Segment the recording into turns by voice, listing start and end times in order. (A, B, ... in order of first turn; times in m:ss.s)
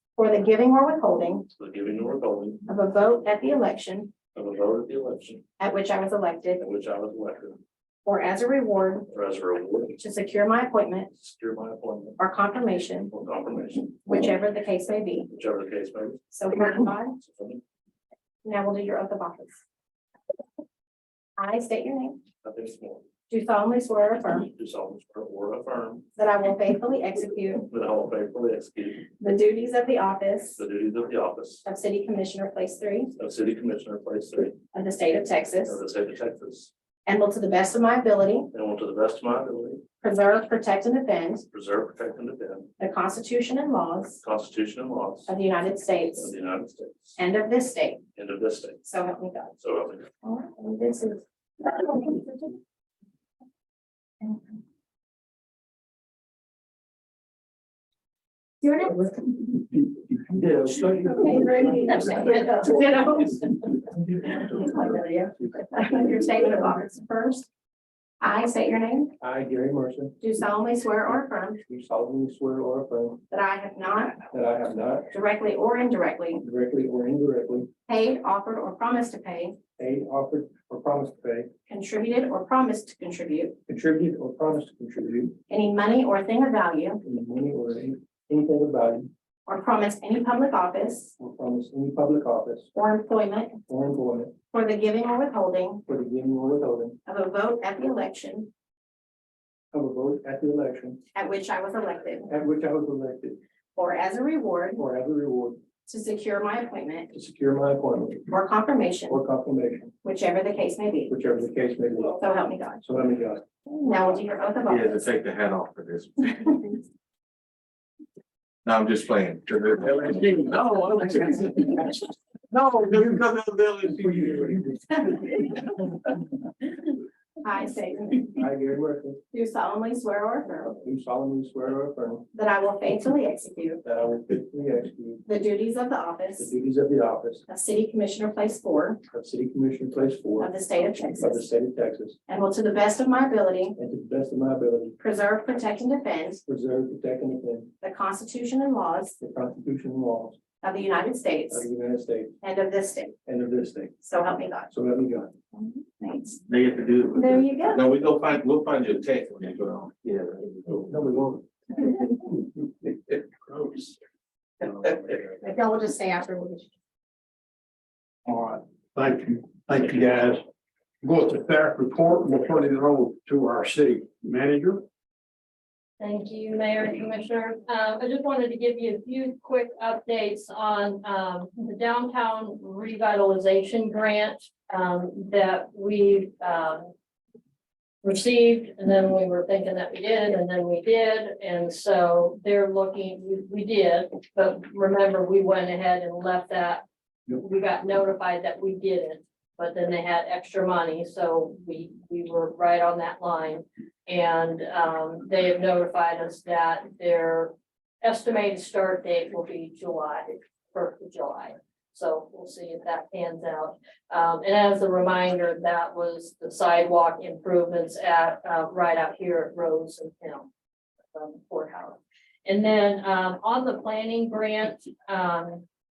0:00.2-0:01.5 A
0:01.6-0:02.6 B
0:02.7-0:04.1 A
0:04.4-0:05.4 B
0:05.6-0:06.6 A
0:06.6-0:07.6 B
0:08.0-0:09.1 A
0:09.1-0:10.0 B
0:10.0-0:11.1 A
0:11.1-0:12.2 B
0:12.2-0:13.1 A
0:13.1-0:14.0 B
0:14.0-0:15.3 A
0:15.3-0:16.2 B
0:16.3-0:17.2 A
0:17.2-0:17.6 B
0:18.4-0:19.6 A
0:21.4-0:22.2 A
0:22.4-0:23.0 B
0:23.3-0:24.5 A
0:24.5-0:26.1 B
0:26.2-0:27.7 A
0:27.7-0:29.1 B
0:29.2-0:30.6 A
0:30.6-0:31.6 B
0:31.6-0:33.1 A
0:33.2-0:34.6 B
0:34.7-0:35.8 A
0:35.6-0:36.7 B
0:37.1-0:38.5 A
0:38.5-0:39.8 B
0:40.0-0:41.4 A
0:41.5-0:42.7 B
0:42.8-0:44.2 A
0:44.2-0:45.3 B
0:45.3-0:46.3 A
0:46.2-0:47.2 B
0:47.2-0:48.0 A
0:48.2-0:48.8 B
0:48.8-0:49.6 A
0:49.6-0:50.1 B
0:50.2-0:52.5 A
0:58.6-0:59.5 A
1:00.1-1:02.5 C
1:00.8-1:07.5 A
1:08.2-1:09.1 A
1:09.2-1:10.2 C
1:10.2-1:11.6 A
1:11.6-1:13.2 C
1:13.3-1:14.2 A
1:14.3-1:15.1 C
1:15.1-1:16.4 A
1:16.4-1:17.7 C
1:17.9-1:19.6 A
1:19.8-1:21.5 C
1:21.7-1:23.6 A
1:23.7-1:25.4 C
1:25.5-1:27.0 A
1:27.0-1:29.1 C
1:29.5-1:31.2 A
1:31.2-1:32.7 C
1:32.7-1:33.6 A
1:33.7-1:34.3 C
1:34.5-1:35.8 A
1:35.9-1:37.0 C
1:37.1-1:38.5 A
1:39.7-1:41.0 C
1:41.2-1:42.3 A
1:42.3-1:43.4 C
1:43.8-1:44.8 A
1:44.8-1:45.6 C
1:45.9-1:47.1 A
1:47.1-1:48.3 C
1:48.3-1:49.2 A
1:49.1-1:49.9 C
1:50.0-1:51.1 A
1:51.1-1:52.2 C
1:52.1-1:52.8 A
1:52.8-1:53.4 C
1:53.8-1:55.1 A
1:54.7-1:56.5 D
1:58.6-2:02.0 D
2:02.5-2:04.7 D
2:04.0-2:04.9 C
2:07.4-2:08.4 A
2:08.4-2:09.2 C
2:09.3-2:10.7 A
2:10.7-2:12.3 C
2:12.4-2:13.8 A
2:13.8-2:15.2 C
2:15.3-2:16.5 A
2:16.4-2:17.4 C
2:17.5-2:19.0 A
2:19.1-2:22.2 C
2:20.4-2:21.4 A
2:22.3-2:23.8 A
2:23.8-2:25.0 C
2:25.0-2:26.4 A
2:26.4-2:27.7 C
2:27.8-2:29.2 A
2:29.2-2:30.4 C
2:30.6-2:31.7 A
2:31.5-2:32.4 C
2:32.4-2:33.2 A
2:33.3-2:33.9 C
2:34.0-2:34.7 A
2:34.7-2:35.3 C
2:35.6-2:36.4 A
2:36.5-2:40.8 D
2:37.1-2:37.8 A
2:40.7-2:41.9 C
2:45.4-2:46.6 A
2:48.2-2:50.4 E
2:51.0-2:54.9 E
2:56.0-3:06.9 F
3:08.0-3:40.5 F
3:41.1-3:45.6 F